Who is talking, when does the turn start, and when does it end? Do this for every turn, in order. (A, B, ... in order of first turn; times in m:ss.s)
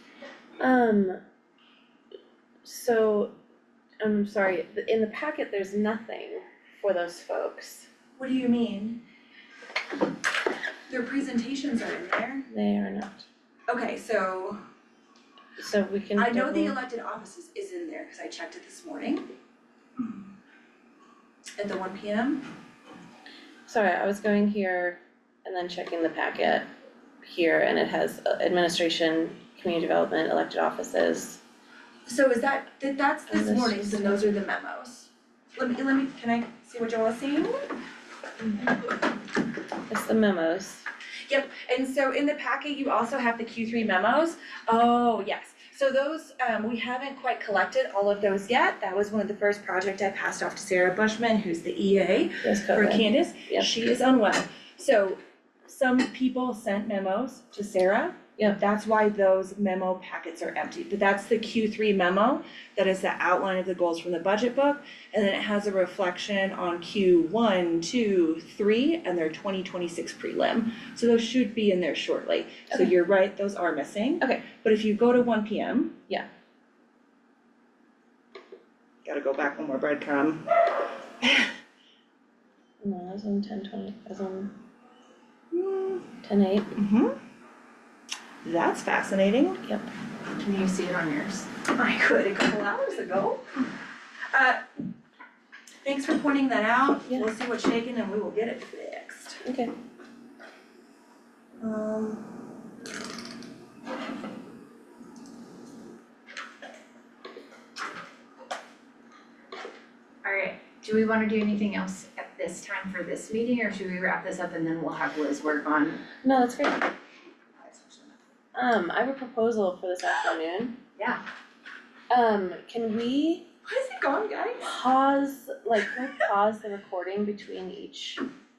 0:00.6-0:01.2 A
0:02.6-0:03.3 A
0:04.0-0:07.9 A
0:08.2-0:09.0 B
0:10.9-0:12.5 B
0:12.5-0:13.2 A
0:13.7-0:14.6 B
0:15.6-0:16.8 A
0:16.2-0:19.3 B
0:21.6-0:22.4 B
0:23.7-0:26.6 A
0:27.2-0:31.4 A
0:32.1-0:37.7 B
0:33.3-0:34.3 A
0:39.9-0:40.8 A
0:41.3-1:16.0 B
0:52.4-0:53.7 A
1:19.0-1:20.4 B
1:22.8-1:24.5 A
1:25.5-1:26.0 B
1:26.2-1:26.7 A
1:26.8-1:27.1 B
1:28.4-1:29.6 B
1:30.4-1:31.6 C
1:31.6-1:33.4 B
1:34.3-1:34.6 B
1:35.8-1:39.4 B
1:39.4-1:39.7 A
1:41.6-1:42.3 B
1:50.2-1:56.0 C
1:56.2-1:56.9 A
1:57.6-1:58.2 C
1:58.5-2:00.8 A
2:01.0-2:01.2 C
2:02.1-2:03.5 A
2:03.6-2:04.7 B
2:04.6-2:08.2 A